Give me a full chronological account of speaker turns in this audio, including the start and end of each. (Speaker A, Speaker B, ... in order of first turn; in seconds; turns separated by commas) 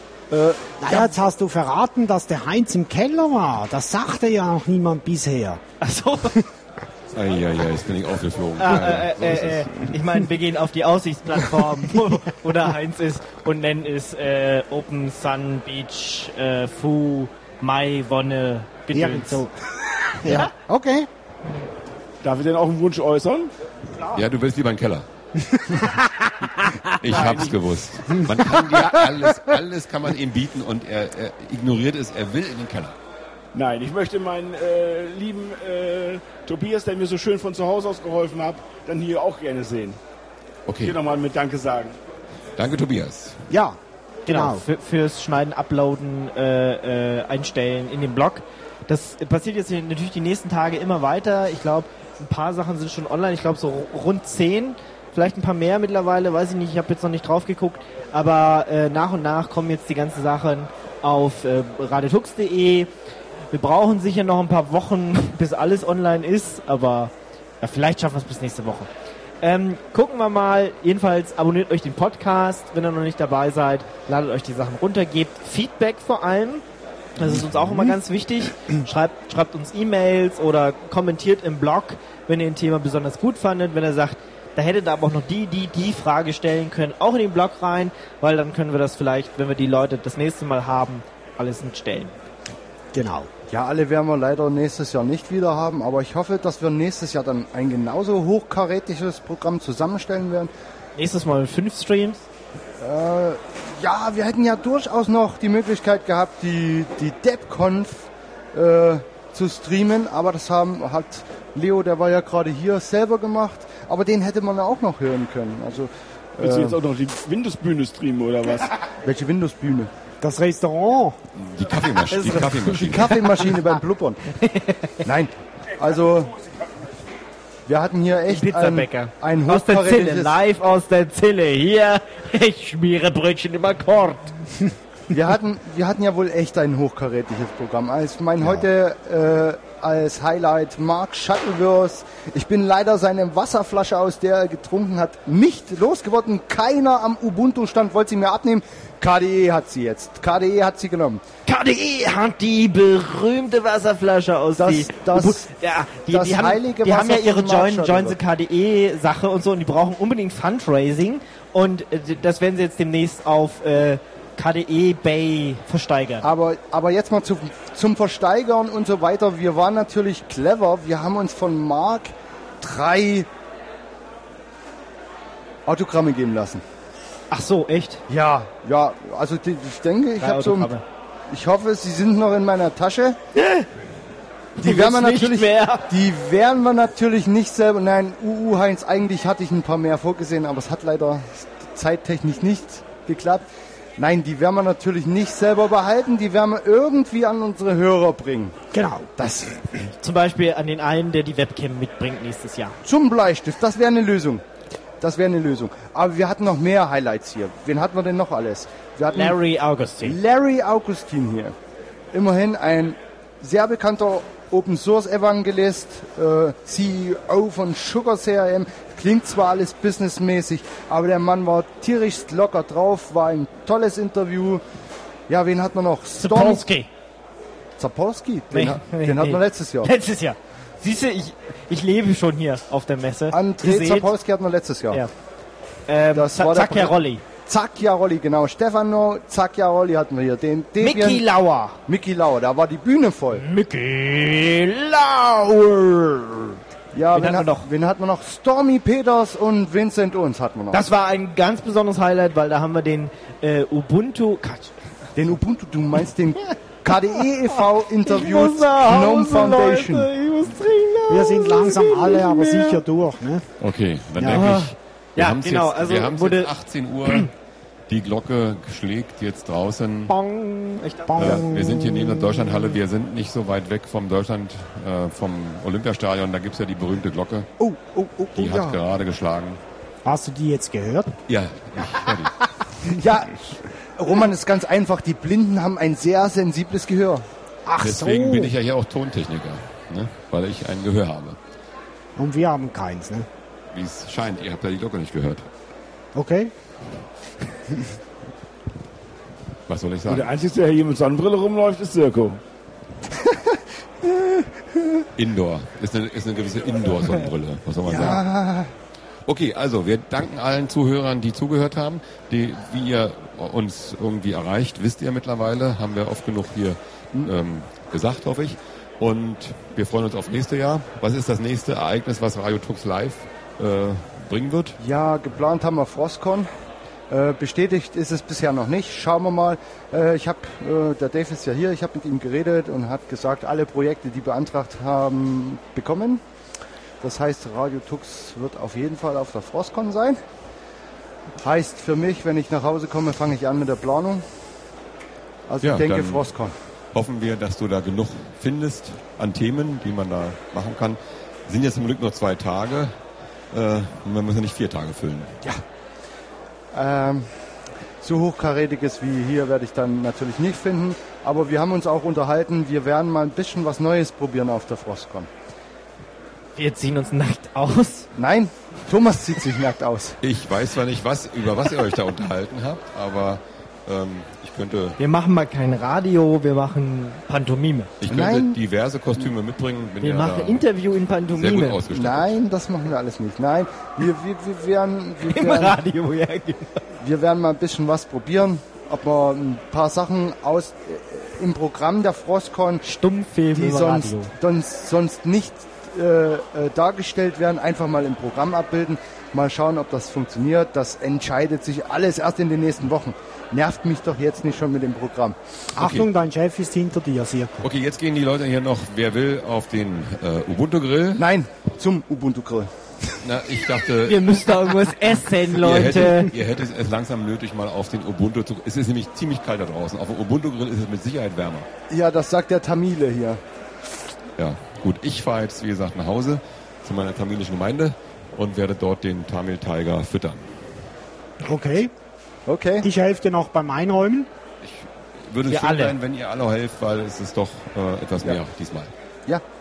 Speaker A: 0.3-0.8, Speaker B: 0.8-5.6, Speaker C: 5.8-6.4, Speaker D: 7.1-9.8, Speaker C: 8.6-19.4, Speaker B: 18.9-21.1, Speaker E: 22.2-23.5, Speaker D: 24.1-25.1, Speaker B: 25.5-27.3, Speaker D: 27.0-33.0, Speaker B: 28.1-29.3, Speaker E: 33.5-40.0, Speaker D: 40.7-41.0, Speaker E: 40.8-42.0, Speaker D: 42.6-43.5, Speaker B: 43.5-44.6, Speaker C: 44.3-62.9, Speaker C: 63.5-68.9, Speaker C: 69.4-76.6, Speaker C: 77.2-92.2, Speaker B: 92.9-93.3, Speaker A: 93.5-100.5, Speaker C: 101.0-102.3, Speaker A: 102.8-116.8, Speaker E: 116.4-118.7, Speaker A: 119.0-119.9, Speaker B: 120.2-121.2, Speaker D: 121.3-123.2, Speaker C: 122.1-123.1, Speaker A: 122.7-124.2, Speaker C: 124.4-125.0, Speaker A: 125.0-126.3, Speaker A: 127.7-130.4, Speaker C: 128.3-134.3, Speaker A: 135.1-151.2, Speaker C: 151.5-166.3, Speaker A: 154.6-155.5, Speaker A: 156.1-158.2, Speaker A: 166.2-173.3, Speaker A: 175.7-176.6, Speaker C: 177.3-178.0, Speaker A: 178.1-180.7, Speaker C: 180.2-180.8, Speaker A: 181.3-183.2, Speaker C: 183.3-183.7, Speaker C: 184.6-185.9, Speaker A: 184.6-198.6, Speaker B: 198.7-199.1, Speaker A: 199.2-199.9, Speaker C: 200.0-202.8, Speaker A: 202.8-204.4, Speaker A: 205.0-209.4, Speaker C: 209.1-210.2, Speaker A: 210.0-211.6, Speaker A: 212.1-224.6, Speaker A: 225.3-226.7, Speaker C: 226.2-226.9, Speaker A: 227.8-229.9, Speaker C: 228.5-234.1, Speaker A: 233.3-235.0, Speaker C: 235.9-237.2, Speaker A: 236.1-236.9, Speaker A: 237.5-241.2, Speaker C: 240.8-241.8, Speaker A: 241.9-243.4, Speaker C: 243.3-246.6, Speaker A: 246.9-250.8, Speaker C: 247.1-247.7, Speaker C: 250.7-254.7, Speaker A: 255.2-260.1, Speaker C: 258.0-262.8, Speaker B: 261.1-263.4, Speaker D: 263.6-267.3, Speaker B: 264.2-264.5, Speaker C: 264.2-266.5, Speaker D: 267.9-270.1, Speaker C: 270.1-271.4, Speaker B: 271.1-272.7, Speaker D: 271.2-277.5, Speaker A: 277.6-278.8, Speaker D: 278.4-279.6, Speaker B: 280.1-281.2, Speaker D: 281.3-282.5, Speaker A: 282.9-287.2, Speaker B: 287.7-288.6, Speaker D: 287.8-291.4, Speaker B: 292.2-293.3, Speaker D: 293.7-295.4, Speaker B: 296.1-296.5, Speaker D: 299.7-300.3, Speaker E: 300.1-302.4, Speaker A: 303.1-305.0, Speaker D: 305.2-308.2, Speaker A: 307.9-308.7, Speaker D: 309.3-324.8, Speaker A: 324.8-326.5, Speaker A: 327.1-336.2, Speaker A: 337.0-340.2, Speaker A: 341.4-344.2, Speaker A: 345.5-346.6, Speaker D: 345.6-346.3, Speaker D: 346.9-352.9, Speaker D: 353.5-355.4, Speaker A: 356.7-357.3, Speaker A: 358.0-365.3, Speaker C: 366.6-368.1, Speaker A: 368.2-370.2, Speaker D: 370.2-375.0, Speaker C: 375.0-377.9, Speaker D: 378.0-380.6, Speaker A: 378.1-378.6, Speaker C: 380.0-381.8, Speaker D: 381.3-382.3, Speaker A: 381.9-385.8, Speaker C: 385.3-386.8, Speaker A: 387.0-392.8, Speaker C: 392.8-394.3, Speaker A: 393.5-405.4, Speaker D: 405.8-406.1, Speaker B: 405.8-407.7, Speaker D: 407.6-411.2, Speaker A: 411.2-412.7, Speaker D: 413.2-414.9, Speaker C: 414.1-416.3, Speaker D: 415.6-421.7, Speaker A: 421.9-423.4, Speaker D: 424.4-430.5, Speaker B: 431.4-431.9, Speaker A: 432.5-432.9, Speaker B: 432.8-434.3, Speaker D: 434.6-438.9, Speaker C: 435.5-436.0